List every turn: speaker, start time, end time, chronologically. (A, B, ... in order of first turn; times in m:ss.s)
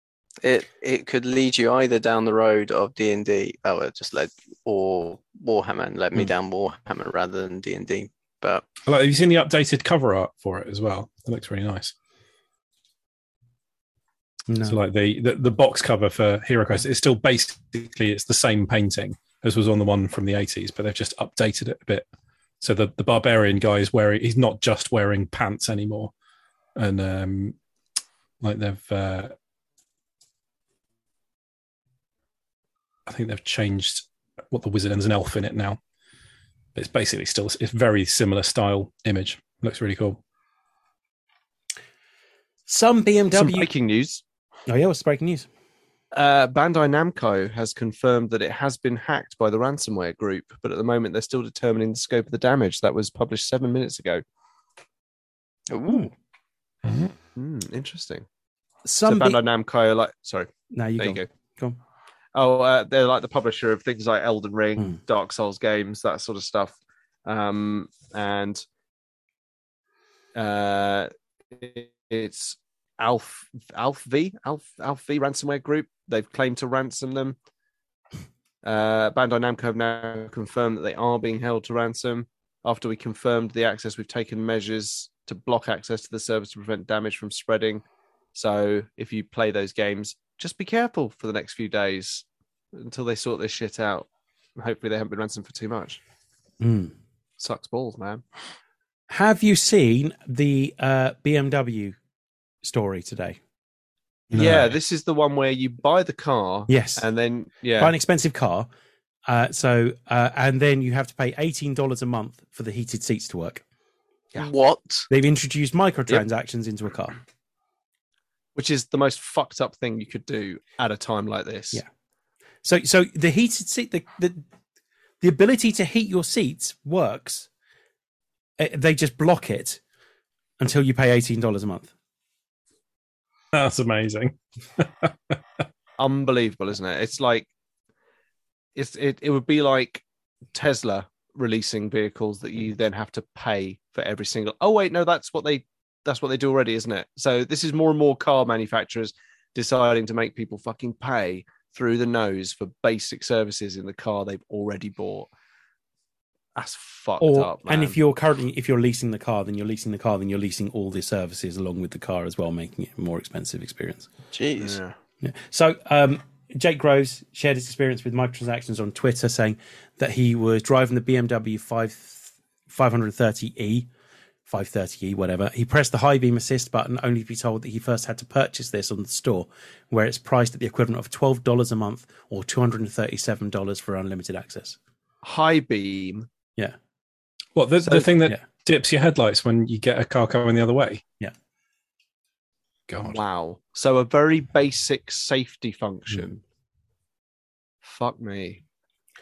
0:00.4-0:08.6 A
0:08.8-0:11.9 B
0:14.5-0:14.8 C
0:14.6-0:22.0 B
0:22.6-0:26.1 B
0:26.8-0:27.6 B
0:28.4-0:29.3 B
0:33.0-0:35.8 B
0:36.8-0:40.2 B
0:42.7-0:43.7 C
0:43.3-0:44.2 D
0:44.7-0:45.5 C
0:46.1-0:54.2 D
0:55.7-0:56.1 A
0:56.8-0:57.1 B
0:57.4-0:58.2 D
0:58.8-0:59.4 C
0:59.0-1:01.3 D
1:00.7-1:01.8 C
1:02.3-1:08.6 D
1:10.4-1:17.4 D
1:18.6-1:36.0 D
1:36.6-1:36.9 C
1:37.4-1:38.2 D
1:39.1-1:42.0 C
1:42.6-1:43.4 C
1:44.3-1:44.7 B
1:44.3-1:47.9 D
1:46.7-1:47.0 C
1:47.8-1:48.7 C
1:49.3-1:53.6 C
1:54.4-1:55.1 A
1:55.1-1:57.2 C
1:58.5-2:01.8 D
2:02.6-2:04.4 C
2:05.2-2:07.5 C
2:08.6-2:09.8 C
2:10.6-2:11.9 C
2:13.5-2:15.4 B
2:16.0-2:17.5 D
2:18.8-2:20.0 D
2:20.5-2:35.3 D
2:36.6-2:38.0 D
2:37.2-2:44.1 C
2:44.3-2:44.8 A
2:44.6-2:45.0 D
2:45.2-2:53.9 C
2:54.4-3:04.8 C
3:05.2-3:06.3 D
3:07.6-3:11.0 B
3:07.9-3:08.4 C
3:12.9-3:13.2 B
3:13.0-3:16.4 D
3:17.8-3:18.6 D